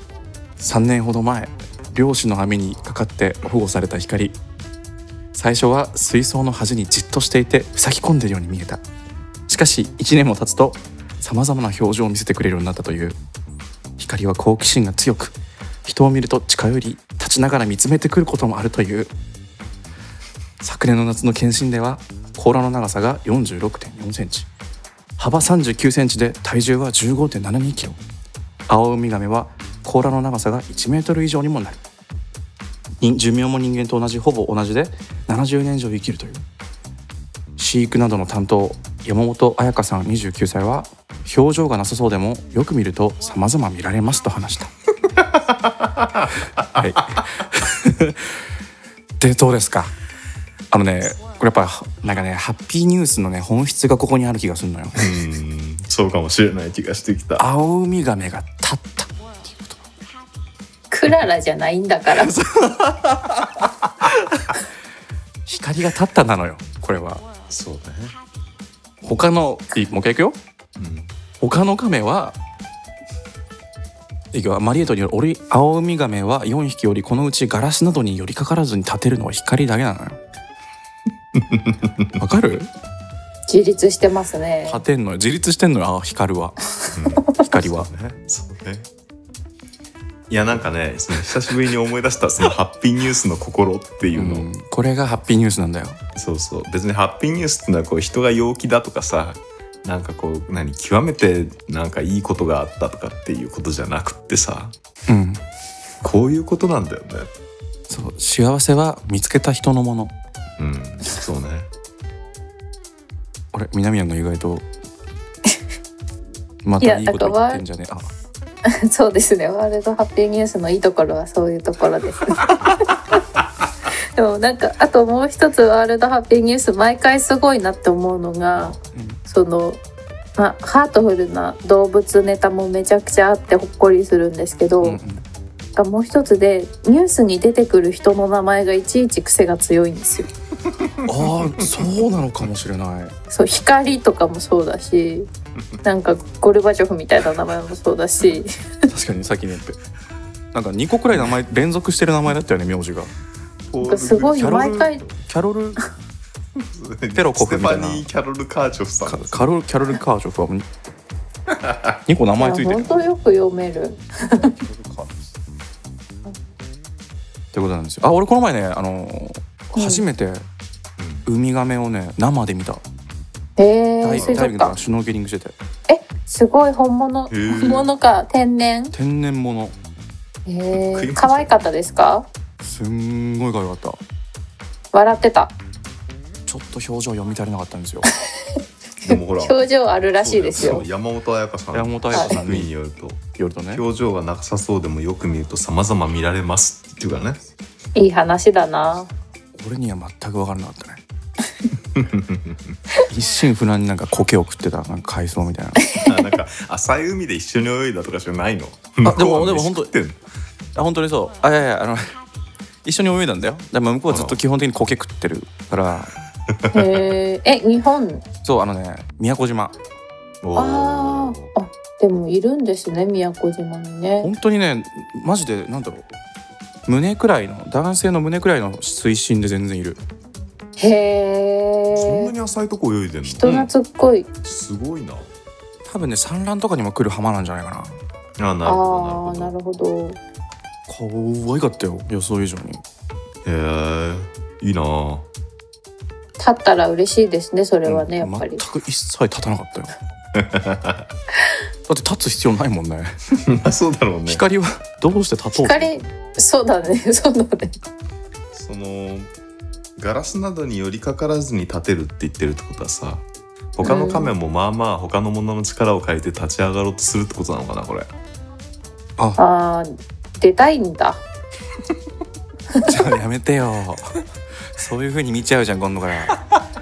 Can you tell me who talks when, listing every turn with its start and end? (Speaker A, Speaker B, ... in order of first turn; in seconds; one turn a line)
Speaker A: 0.6-4.4
Speaker A: 5.3-8.8
Speaker A: 9.5-13.2
Speaker A: 14.0-19.1
Speaker A: 20.6-24.5
Speaker A: 25.2-28.0
Speaker A: 28.7-31.8
Speaker A: 33.0-36.4
Speaker A: 37.6-44.7
Speaker B: 45.2-46.6
Speaker A: 46.7-48.3
Speaker A: 49.2-49.9
Speaker A: 50.7-55.2
Speaker B: 55.0-57.4
Speaker A: 57.4-59.8
Speaker C: 60.9-62.3
Speaker A: 62.2-64.5
Speaker A: 65.5-67.2
Speaker B: 67.5-68.1
Speaker A: 69.0-70.4
Speaker B: 70.8-71.1
Speaker A: 71.4-72.4
Speaker A: 74.3-80.2
Speaker B: 81.3-82.1
Speaker A: 82.2-82.7
Speaker C: 83.5-84.8
Speaker A: 84.7-86.6
Speaker B: 86.9-88.9
Speaker A: 87.4-87.9
Speaker B: 90.3-94.5
Speaker A: 94.1-96.0
Speaker B: 96.2-104.7
Speaker A: 105.1-105.4
Speaker B: 106.0-107.3
Speaker A: 107.9-110.1
Speaker B: 110.6-111.7
Speaker A: 113.5-114.7
Speaker A: 116.6-118.1
Speaker C: 116.8-117.6
Speaker C: 118.7-123.2
Speaker C: 124.2-129.8
Speaker A: 128.9-129.2
Speaker C: 130.4-135.0
Speaker A: 134.8-135.2
Speaker C: 135.8-140.3
Speaker B: 140.7-141.7
Speaker A: 141.1-143.2
Speaker C: 143.3-145.3
Speaker C: 145.8-148.5
Speaker A: 148.9-149.8
Speaker A: 150.5-153.1
Speaker B: 153.7-155.1
Speaker C: 153.8-155.0
Speaker A: 154.4-155.8
Speaker B: 156.6-159.5
Speaker A: 157.1-158.1
Speaker A: 159.1-160.7
Speaker B: 161.5-162.0
Speaker A: 162.1-163.1
Speaker C: 162.4-164.6
Speaker A: 164.4-165.2
Speaker A: 167.5-170.5
Speaker C: 169.8-170.0
Speaker B: 171.0-171.3
Speaker A: 171.3-172.8
Speaker C: 173.6-174.8
Speaker A: 174.0-175.6
Speaker B: 174.2-174.4
Speaker C: 175.9-178.9
Speaker B: 177.3-177.9
Speaker A: 178.9-179.8
Speaker C: 180.5-182.3
Speaker B: 180.7-181.6
Speaker A: 182.6-184.0
Speaker C: 184.9-185.5
Speaker A: 186.5-188.1
Speaker C: 189.0-190.8
Speaker B: 189.0-197.4
Speaker A: 191.7-192.7
Speaker A: 193.3-193.8
Speaker C: 198.0-199.1
Speaker A: 199.6-201.0
Speaker B: 201.9-202.8
Speaker A: 203.1-205.9
Speaker B: 206.0-210.2
Speaker A: 209.0-209.9
Speaker A: 210.8-212.2
Speaker A: 212.8-216.2
Speaker B: 214.1-214.4
Speaker B: 216.5-217.0
Speaker C: 216.7-218.2
Speaker A: 218.4-219.8
Speaker B: 220.4-221.5
Speaker C: 220.6-224.3
Speaker A: 224.2-226.1
Speaker A: 226.9-230.0
Speaker C: 230.8-232.3
Speaker B: 231.9-233.5
Speaker C: 233.2-234.3
Speaker A: 233.4-233.7
Speaker B: 234.4-235.3
Speaker A: 235.9-238.0
Speaker B: 238.4-239.5
Speaker C: 238.6-240.2
Speaker A: 240.9-242.8
Speaker B: 243.4-245.3
Speaker C: 246.4-248.6
Speaker A: 247.9-249.9
Speaker B: 250.3-251.1
Speaker A: 251.9-253.2
Speaker B: 253.4-254.4
Speaker A: 254.3-256.0
Speaker C: 255.6-257.8
Speaker B: 258.5-259.3
Speaker B: 260.0-263.2
Speaker B: 263.8-268.1
Speaker C: 263.8-264.3
Speaker C: 269.4-271.2
Speaker A: 272.8-276.5